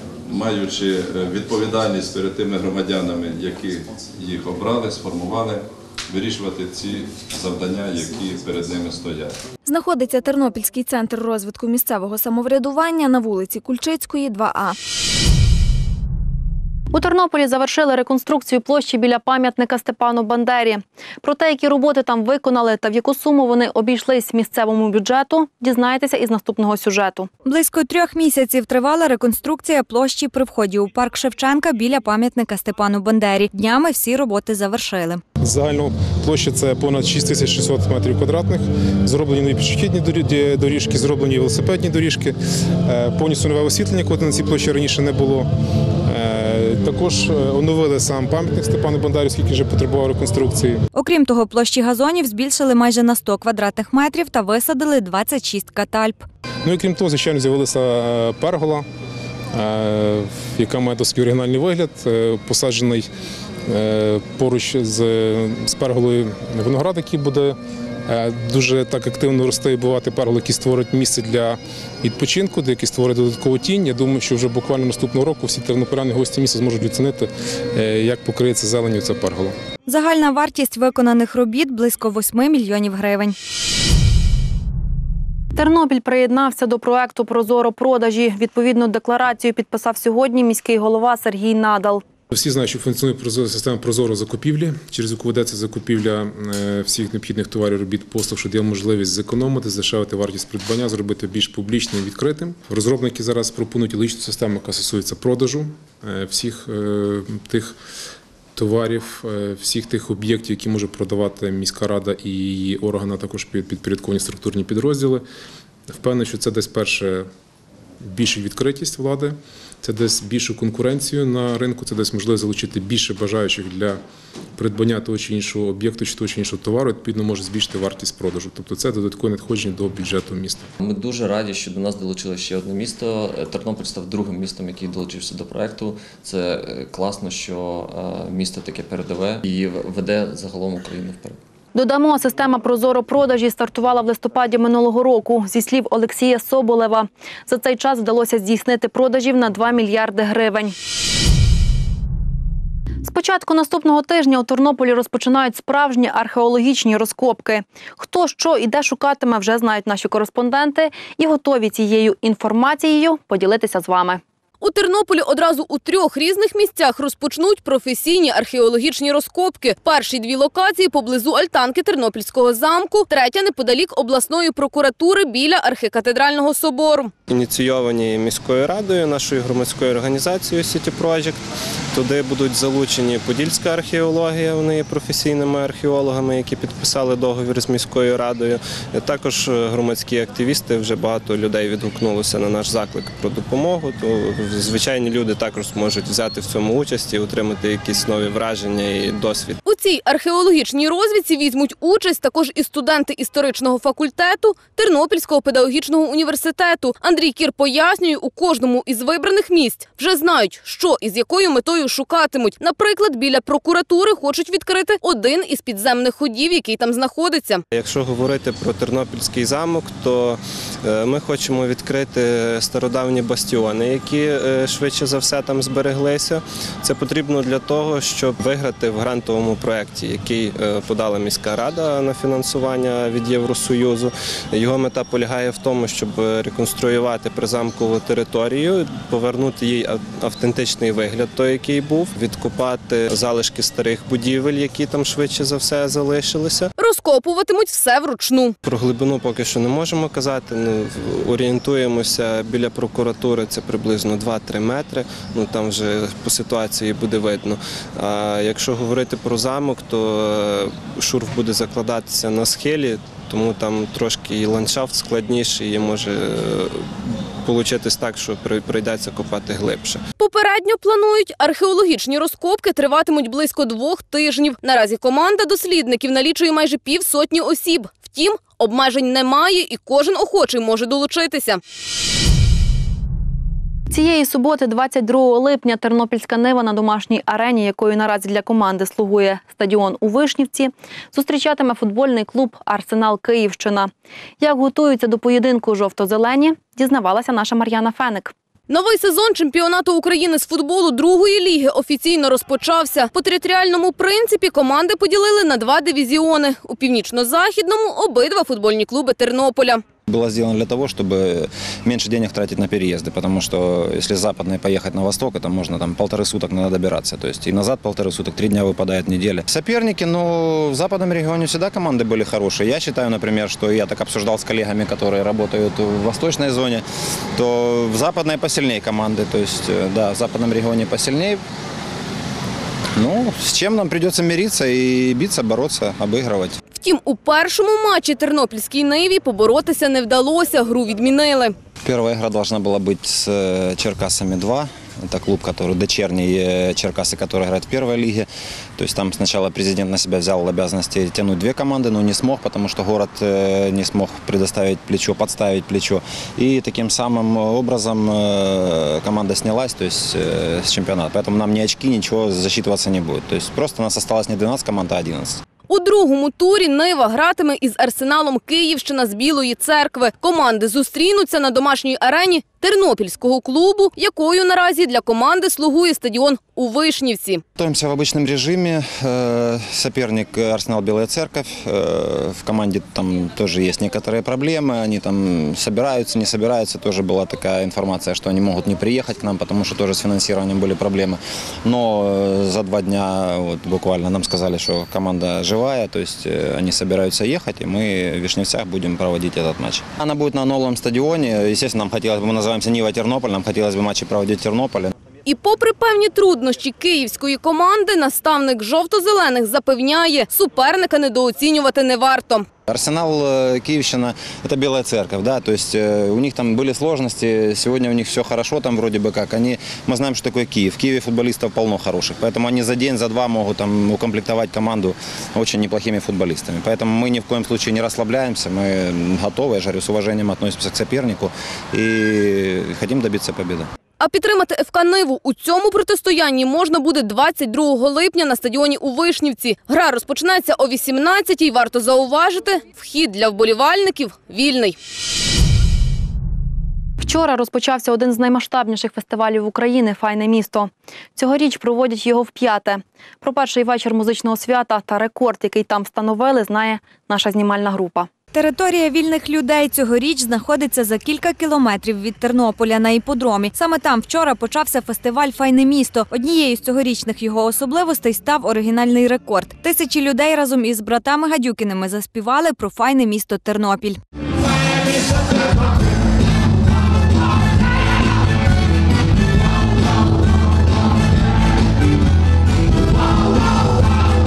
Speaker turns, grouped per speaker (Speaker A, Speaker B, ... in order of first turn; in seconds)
Speaker A: 0.2-9.3
Speaker B: 9.6-14.8
Speaker C: 16.9-27.3, 85.5-92.0, 141.7-150.7, 153.0-164.2, 283.9-298.3, 447.0-458.1
Speaker D: 27.5-35.2, 51.0-56.2, 79.9-83.3, 458.3-474.0
Speaker E: 27.6-31.0, 31.8-32.5, 33.5-35.0, 51.0-52.9, 53.8-56.1, 79.9-81.0, 81.9-82.6, 130.8-141.3, 459.3-473.7
Speaker F: 35.4-42.3, 42.9-45.5, 46.0-50.8, 56.6-58.9, 59.5-63.1, 63.7-67.6, 68.1-79.5, 92.3-107.7, 108.5-115.2, 115.9-117.3, 118.0-124.0, 124.6-130.7
Speaker G: 164.6-177.1, 199.6-217.6, 246.8-248.5, 270.2-281.6, 298.7-309.8, 336.8-341.5, 365.7-377.4, 405.2-412.5, 434.0-444.8
Speaker H: 177.3-181.4, 181.9-199.6, 217.7-246.7, 248.6-270.0
Speaker I: 310.1-326.8, 327.4-331.4, 332.9-336.6, 341.8-365.4, 377.6-404.9, 412.7-433.7